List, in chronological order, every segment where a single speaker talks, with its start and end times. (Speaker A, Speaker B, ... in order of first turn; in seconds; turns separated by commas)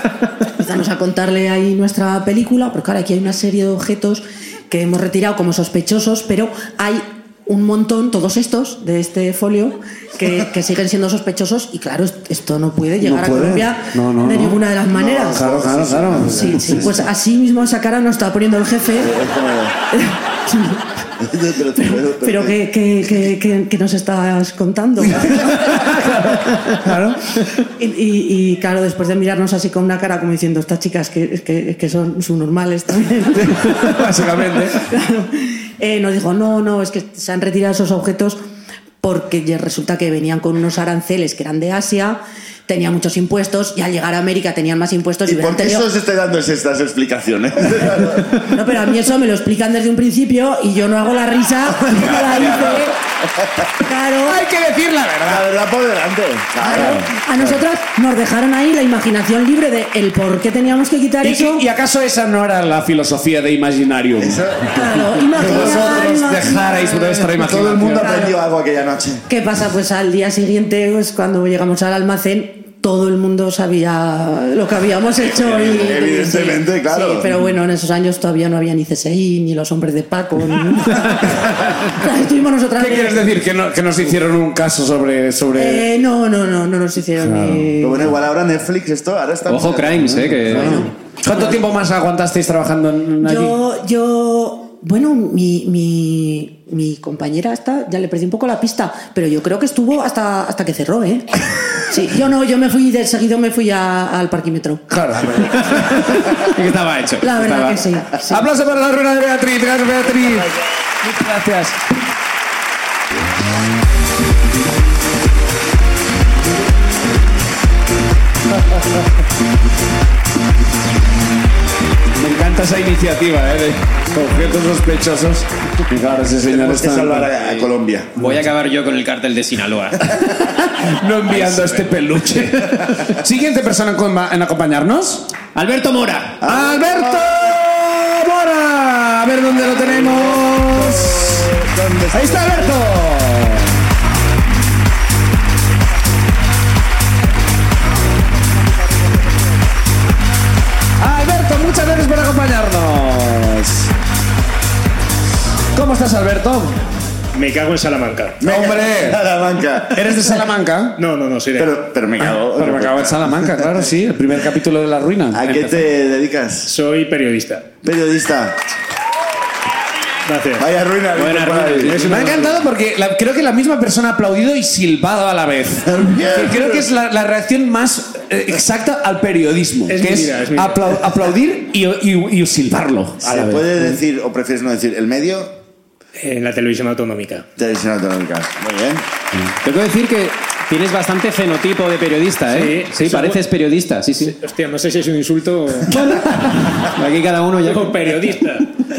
Speaker A: 0.6-15.4, Speaker B: 13.0-14.6, Speaker C: 14.9-17.0, Speaker B: 15.3-16.9, Speaker A: 16.2-19.1, Speaker C: 18.9-19.8, Speaker A: 19.9-20.8, Speaker C: 21.2-22.6, Speaker A: 21.9-25.7, Speaker B: 25.3-27.2, Speaker A: 27.6-38.4, Speaker B: 33.4-34.8, Speaker A: 39.0-45.9, Speaker C: 45.2-48.5, Speaker A: 48.3-52.9, Speaker C: 52.0-52.9, Speaker B: 52.2-52.8, Speaker C: 53.4-53.6, Speaker A: 53.8-54.4, Speaker B: 54.2-55.5, Speaker C: 55.2-57.0, Speaker B: 56.6-57.6, Speaker A: 56.6-61.7, Speaker B: 61.2-64.6, Speaker C: 64.2-69.3, Speaker A: 64.7-67.2, Speaker B: 65.3-68.2, Speaker A: 68.0-68.4, Speaker A: 69.3-83.4, Speaker C: 75.2-77.3, Speaker B: 82.8-85.9, Speaker A: 85.5-88.1, Speaker B: 87.2-87.7, Speaker C: 87.8-90.2, Speaker D: 89.5-90.9, Speaker B: 90.1-93.6, Speaker A: 90.5-91.5, Speaker A: 93.2-104.9, Speaker B: 104.9-106.2, Speaker D: 105.5-107.8, Speaker A: 107.2-108.5, Speaker B: 108.3-111.8, Speaker B: 122.2-127.3, Speaker C: 126.3-128.1, Speaker D: 127.4-130.2, Speaker B: 130.7-135.3, Speaker D: 131.3-131.9, Speaker D: 135.5-136.4, Speaker C: 136.4-137.4, Speaker B: 136.4-141.5, Speaker C: 139.5-142.8, Speaker B: 142.1-143.8, Speaker B: 151.0-153.9, Speaker B: 155.7-156.8, Speaker E: 157.3-158.4, Speaker C: 158.4-160.3, Speaker B: 158.4-159.2, Speaker B: 159.9-161.0, Speaker E: 160.9-161.9, Speaker C: 161.6-163.7, Speaker B: 162.2-165.5, Speaker C: 165.3-166.7, Speaker E: 166.6-167.7, Speaker C: 167.8-168.6, Speaker E: 170.2-170.7, Speaker C: 170.6-172.1, Speaker D: 171.1-172.4, Speaker E: 171.8-172.6, Speaker B: 171.9-183.8, Speaker C: 175.8-176.9, Speaker E: 179.9-181.1, Speaker C: 183.2-185.6, Speaker E: 186.2-187.5, Speaker C: 187.6-189.0, Speaker D: 189.6-194.3, Speaker E: 192.5-193.4, Speaker E: 194.2-196.1, Speaker D: 195.9-198.3, Speaker E: 197.6-198.7